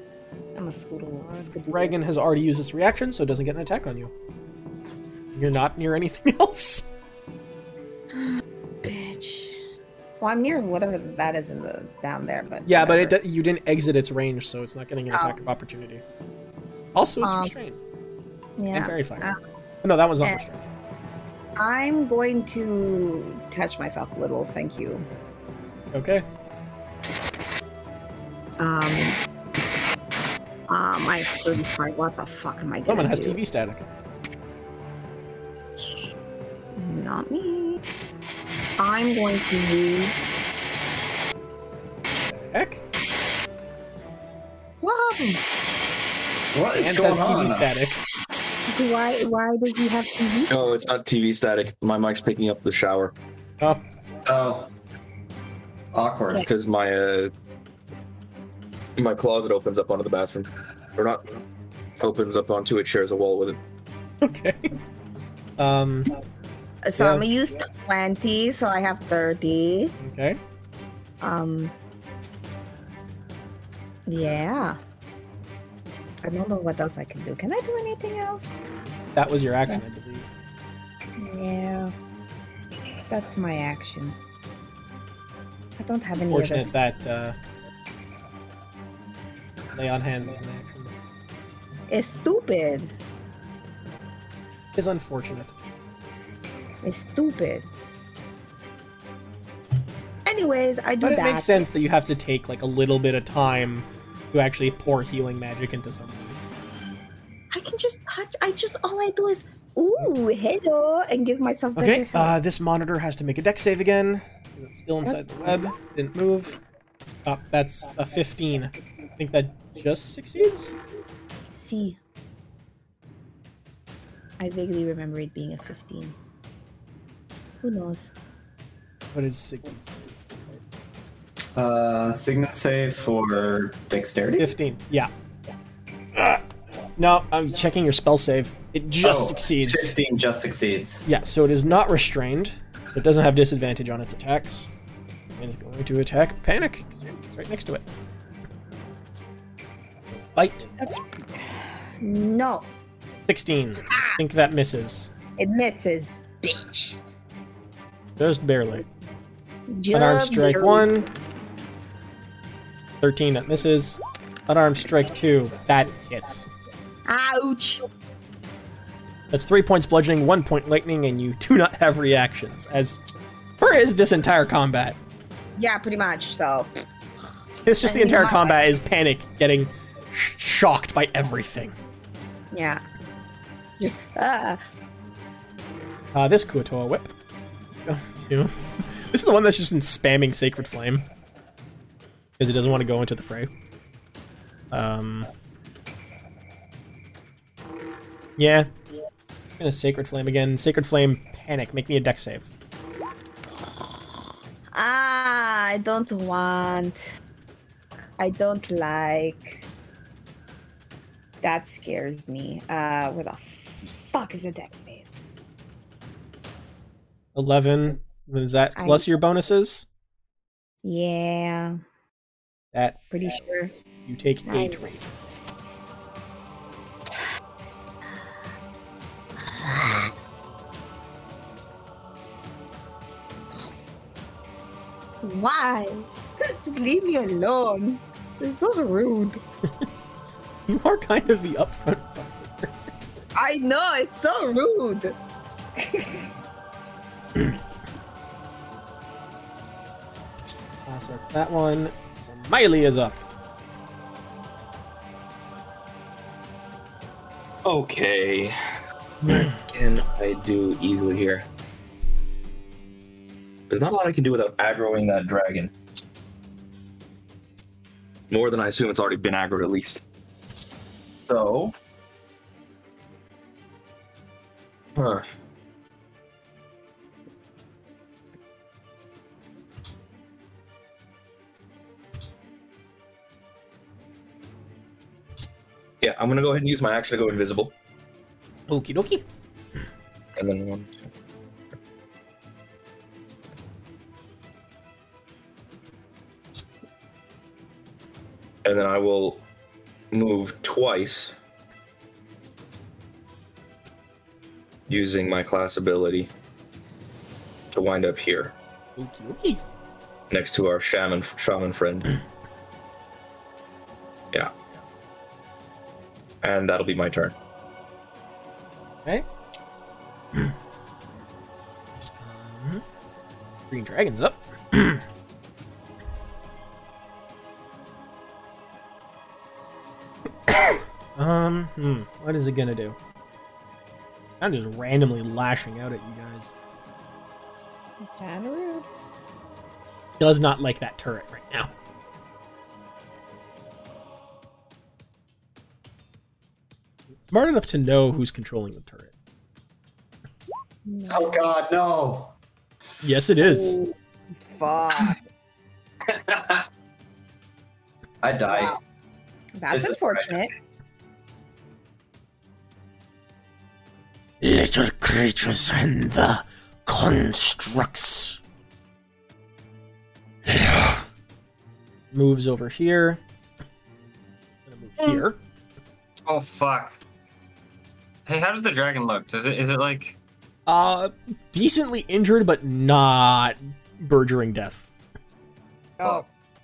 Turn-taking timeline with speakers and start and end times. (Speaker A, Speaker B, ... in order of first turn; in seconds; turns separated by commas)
Speaker A: 0.6-2.0, Speaker B: 1.2-4.1, Speaker B: 5.3-6.9, Speaker A: 8.1-9.6, Speaker A: 10.2-13.2, Speaker B: 12.7-16.0, Speaker A: 15.1-15.4, Speaker B: 16.9-17.8, Speaker A: 17.2-17.5, Speaker A: 18.6-19.4, Speaker B: 18.7-19.3, Speaker B: 19.8-20.7, Speaker A: 21.6-25.1, Speaker B: 25.9-26.2, Speaker A: 28.6-29.2, Speaker A: 30.7-33.4, Speaker B: 32.9-33.9, Speaker A: 35.8-36.1, Speaker A: 36.8-37.8, Speaker A: 38.8-40.2, Speaker B: 42.3-42.8, Speaker A: 44.8-45.4, Speaker C: 46.5-47.7, Speaker B: 46.8-48.0, Speaker A: 48.7-50.9, Speaker D: 50.5-53.1, Speaker C: 54.2-54.7, Speaker C: 55.9-56.5, Speaker D: 56.5-57.3, Speaker D: 59.0-61.4, Speaker D: 62.0-63.6, Speaker B: 64.2-64.8, Speaker B: 65.6-66.1, Speaker A: 66.8-69.9, Speaker B: 67.0-67.3, Speaker B: 70.0-70.4, Speaker A: 71.2-71.7, Speaker A: 74.1-74.8, Speaker A: 76.2-78.6, Speaker B: 79.2-80.3, Speaker A: 81.2-81.9, Speaker A: 83.1-84.2, Speaker A: 85.8-86.7, Speaker B: 86.2-87.4, Speaker B: 89.8-90.9, Speaker A: 91.9-92.9, Speaker B: 94.8-95.5, Speaker A: 96.8-97.7, Speaker A: 100.3-101.7, Speaker B: 101.0-106.4, Speaker A: 107.5-112.3, Speaker B: 111.8-116.6, Speaker A: 115.0-115.6, Speaker B: 117.3-120.7, Speaker A: 121.5-122.0, Speaker A: 124.4-126.2, Speaker A: 127.6-128.1, Speaker B: 129.1-130.6, Speaker C: 131.6-134.5, Speaker B: 134.4-135.1, Speaker B: 137.0-140.0, Speaker C: 139.0-141.1, Speaker B: 141.1-144.7, Speaker B: 145.4-147.8, Speaker B: 150.3-150.7, Speaker A: 150.8-152.7, Speaker B: 153.3-155.1, Speaker A: 153.9-154.2, Speaker A: 155.4-157.0, Speaker B: 158.2-158.8, Speaker A: 159.7-160.9, Speaker B: 159.9-161.1, Speaker B: 163.0-166.5, Speaker A: 167.1-167.9, Speaker B: 169.3-173.0, Speaker B: 173.6-175.0, Speaker A: 175.6-176.8, Speaker B: 177.7-181.7, Speaker A: 177.8-178.6, Speaker A: 182.5-182.8, Speaker A: 183.8-184.6, Speaker B: 186.1-187.1, Speaker B: 187.9-188.5, Speaker B: 189.1-191.1, Speaker B: 192.4-193.5, Speaker B: 194.7-195.3, Speaker B: 198.4-198.7, Speaker B: 199.6-202.5, Speaker A: 204.7-207.0, Speaker A: 208.2-209.6, Speaker A: 211.4-215.1, Speaker B: 217.3-219.9, Speaker A: 218.8-219.1, Speaker A: 220.8-221.8, Speaker B: 222.7-223.0, Speaker A: 223.1-223.7, Speaker B: 223.8-225.1, Speaker A: 224.5-224.9, Speaker A: 229.5-230.1, Speaker A: 235.2-236.1, Speaker A: 236.6-239.4, Speaker B: 240.7-242.8, Speaker A: 243.3-245.2, Speaker A: 245.8-246.3, Speaker B: 250.9-253.2, Speaker D: 257.6-258.6, Speaker D: 259.3-261.4, Speaker D: 263.7-265.7, Speaker D: 268.3-270.0, Speaker D: 271.3-271.7, Speaker D: 275.0-275.3, Speaker D: 286.0-287.7, Speaker B: 288.7-289.2, Speaker D: 290.4-291.1, Speaker D: 298.6-299.4, Speaker D: 300.1-301.4, Speaker D: 304.9-306.3, Speaker D: 307.7-308.6, Speaker B: 309.0-309.6, Speaker D: 310.3-312.2, Speaker D: 316.4-317.4, Speaker B: 322.2-322.8, Speaker B: 323.7-325.0, Speaker B: 330.5-333.0, Speaker B: 334.4-336.5, Speaker A: 338.0-338.9, Speaker B: 340.2-341.7, Speaker B: 347.2-349.1, Speaker A: 350.9-351.4, Speaker C: 351.1-352.3, Speaker B: 353.0-353.8, Speaker A: 353.4-355.2, Speaker C: 358.2-358.8, Speaker A: 358.5-358.8, Speaker A: 359.6-360.5, Speaker C: 359.7-360.5, Speaker E: 364.4-368.4, Speaker E: 370.5-371.0, Speaker B: 372.1-373.2, Speaker B: 374.7-375.4, Speaker F: 376.3-377.0, Speaker F: 378.3-380.2, Speaker B: 380.7-384.9, Speaker A: 386.0-386.2, Speaker F: 386.0-386.3